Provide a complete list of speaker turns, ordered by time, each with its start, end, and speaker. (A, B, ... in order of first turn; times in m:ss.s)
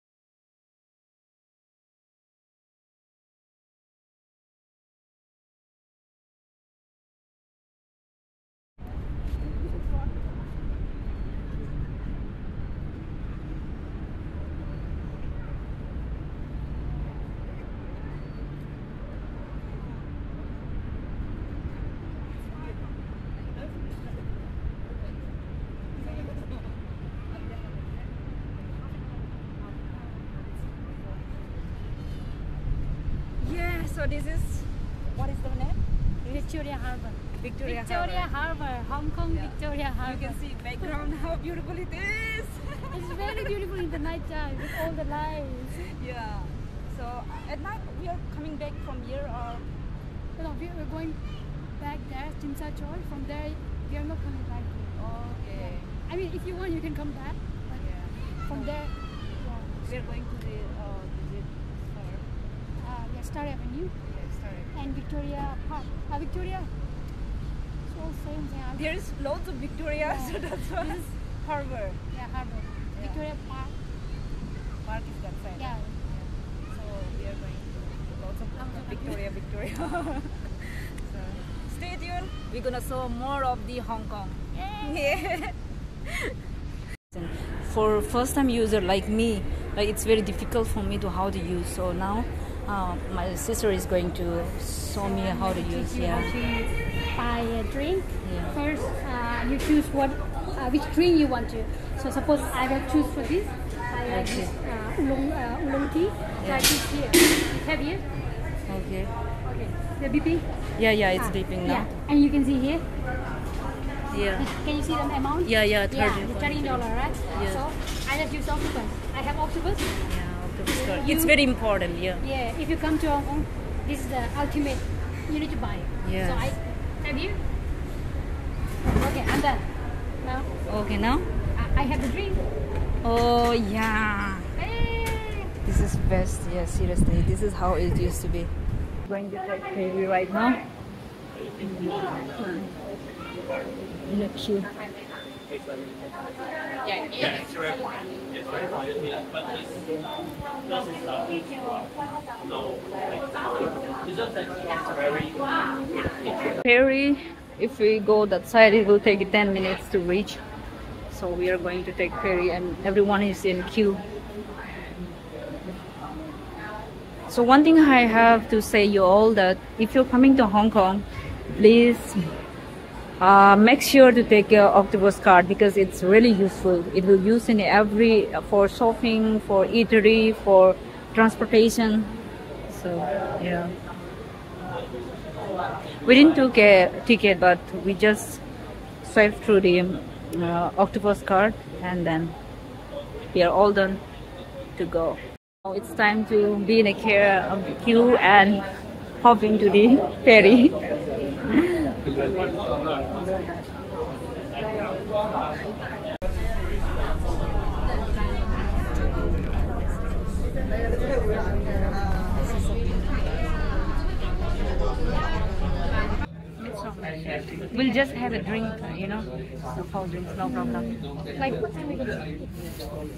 0:33.4-0:36.4 A
0:36.3-0:40.4 B
0:37.4-0:38.3 A
0:39.3-0:43.5 A
0:42.9-0:45.9 B
0:45.8-0:49.6 A
0:50.4-0:51.2 B
0:51.7-0:55.0 B
0:54.9-0:55.9 A
0:55.5-0:57.8 B
0:57.7-0:58.7 A
0:58.5-0:59.9 B
0:59.8-1:02.2 A
1:02.8-1:03.9 B
1:04.1-1:04.7 A
1:04.7-1:06.7 B
1:07.9-1:08.8 B
1:08.7-1:12.0 A
1:10.0-1:11.1 B
1:12.1-1:13.7 B
1:12.9-1:13.2 A
1:14.8-1:25.5 A
1:15.5-1:16.0 B
1:18.5-1:19.2 B
1:26.0-1:26.4 A
1:27.1-1:36.3 A
1:35.0-1:48.0 B
1:38.2-1:38.5 A
1:44.0-1:44.5 A
1:46.4-1:46.7 A
1:48.7-1:49.1 A
1:49.4-1:50.4 B
1:50.8-1:51.9 A
1:51.2-1:52.8 B
1:54.1-1:54.5 A
1:54.4-1:59.9 B
1:55.4-1:57.6 A
2:00.0-2:02.2 A
2:00.7-2:01.3 B
2:02.2-2:07.4 B
2:06.0-2:06.5 A
2:08.8-2:10.5 B
2:10.7-2:11.3 A
2:11.5-2:12.4 B
2:13.0-2:14.5 A
2:14.6-2:15.5 B
2:15.6-2:18.5 A
2:19.0-2:20.6 A
2:21.6-2:22.7 A
2:24.0-2:24.7 A
2:36.4-2:40.4 A
2:41.1-2:44.0 A
2:47.3-2:52.2 A
2:53.2-3:02.1 A
3:02.7-3:03.7 A
3:06.0-3:08.4 A
3:09.0-3:12.4 A
3:13.3-3:14.0 A
3:14.8-3:18.7 A
3:19.2-3:21.9 A
3:32.0-3:32.9 A
3:36.6-3:41.0 A
3:37.7-3:38.0 B
3:40.5-3:42.2 B